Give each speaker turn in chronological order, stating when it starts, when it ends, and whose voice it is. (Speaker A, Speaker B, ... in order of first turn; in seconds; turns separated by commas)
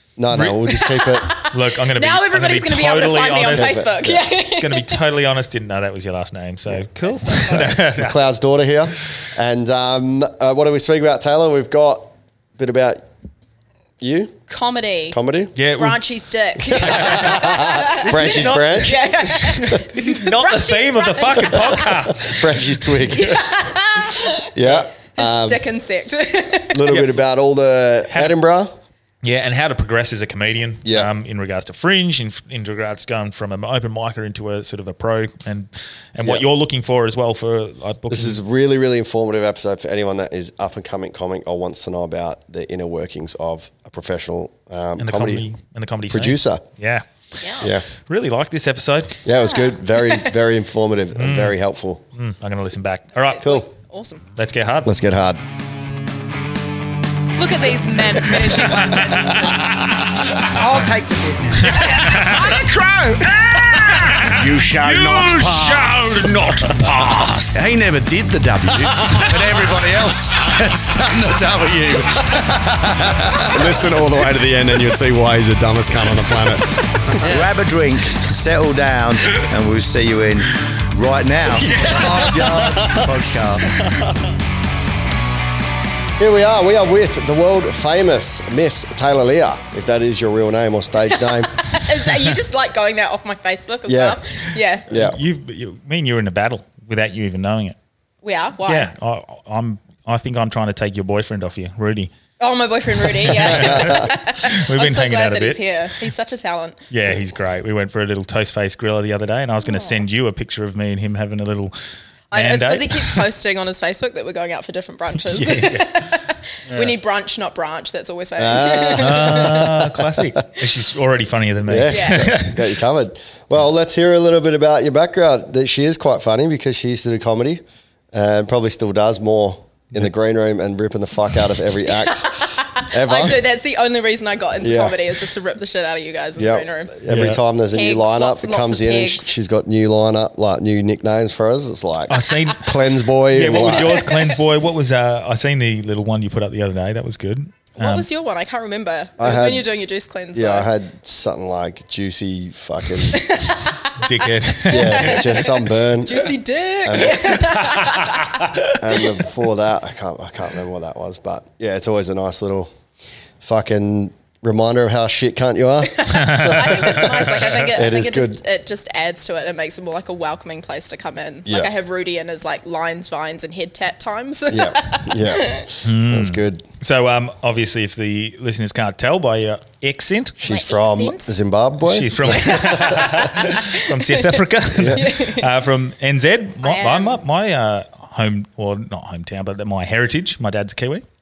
Speaker A: 0.2-1.3, Speaker B: 0.3-0.6, Speaker C: 0.7-5.0, Speaker B: 1.5-8.2, Speaker A: 3.5-4.2, Speaker C: 7.0-7.8, Speaker A: 7.2-13.0, Speaker A: 14.0-14.4, Speaker C: 14.5-15.2, Speaker A: 15.1-15.5, Speaker B: 15.6-16.0, Speaker C: 15.7-22.0, Speaker A: 16.7-19.8, Speaker B: 16.8-22.8, Speaker A: 22.1-23.4, Speaker C: 23.1-24.5, Speaker A: 24.5-25.6, Speaker C: 25.1-26.9, Speaker A: 26.7-28.7, Speaker B: 29.2-38.4, Speaker A: 30.8-31.1, Speaker A: 38.1-45.4, Speaker B: 45.0-49.2, Speaker A: 46.1-46.6, Speaker C: 47.4-47.9, Speaker A: 47.6-47.8, Speaker A: 49.2-52.0, Speaker C: 49.4-50.3, Speaker B: 51.1-51.6, Speaker B: 52.1-53.6, Speaker C: 53.2-54.2, Speaker B: 54.4-54.9, Speaker A: 54.8-55.4, Speaker C: 57.4-60.4, Speaker D: 58.1-59.4, Speaker B: 58.4-59.3, Speaker D: 60.3-67.7, Speaker B: 61.6-62.6, Speaker B: 63.7-66.7, Speaker E: 64.3-66.7, Speaker E: 67.5-73.9, Speaker A: 73.5-76.8, Speaker E: 77.2-83.8, Speaker D: 81.7-83.1, Speaker A: 86.2-91.7, Speaker C: 91.0-94.9, Speaker A: 93.9-94.2, Speaker B: 94.9-97.8, Speaker A: 94.9-95.2, Speaker C: 98.2-98.9, Speaker B: 98.7-102.1, Speaker C: 102.4-106.8, Speaker B: 103.0-106.1, Speaker A: 103.5-104.0, Speaker B: 106.9-111.7, Speaker C: 109.6-110.0, Speaker C: 112.3-119.7, Speaker B: 112.3-113.2, Speaker B: 115.3-116.9, Speaker A: 118.4-120.4, Speaker B: 118.9-122.7, Speaker A: 121.7-133.4, Speaker C: 121.9-122.3, Speaker C: 131.9-137.0, Speaker A: 134.6-135.0, Speaker A: 136.4-144.1, Speaker B: 137.1-137.4, Speaker C: 137.7-139.4, Speaker B: 142.1-148.1, Speaker C: 143.7-144.3, Speaker C: 147.8-150.7, Speaker A: 149.2-149.7, Speaker A: 150.3-153.4, Speaker C: 153.1-158.5, Speaker B: 153.9-155.5, Speaker A: 154.7-157.7, Speaker B: 157.4-158.7, Speaker A: 158.7-162.7, Speaker A: 163.4-168.4, Speaker C: 165.9-175.7, Speaker B: 166.1-167.6, Speaker A: 174.5-176.6, Speaker B: 175.8-180.4, Speaker A: 180.4-183.0, Speaker C: 180.4-181.4, Speaker B: 181.8-191.0, Speaker C: 182.3-185.5, Speaker A: 184.7-185.1, Speaker C: 186.6-187.2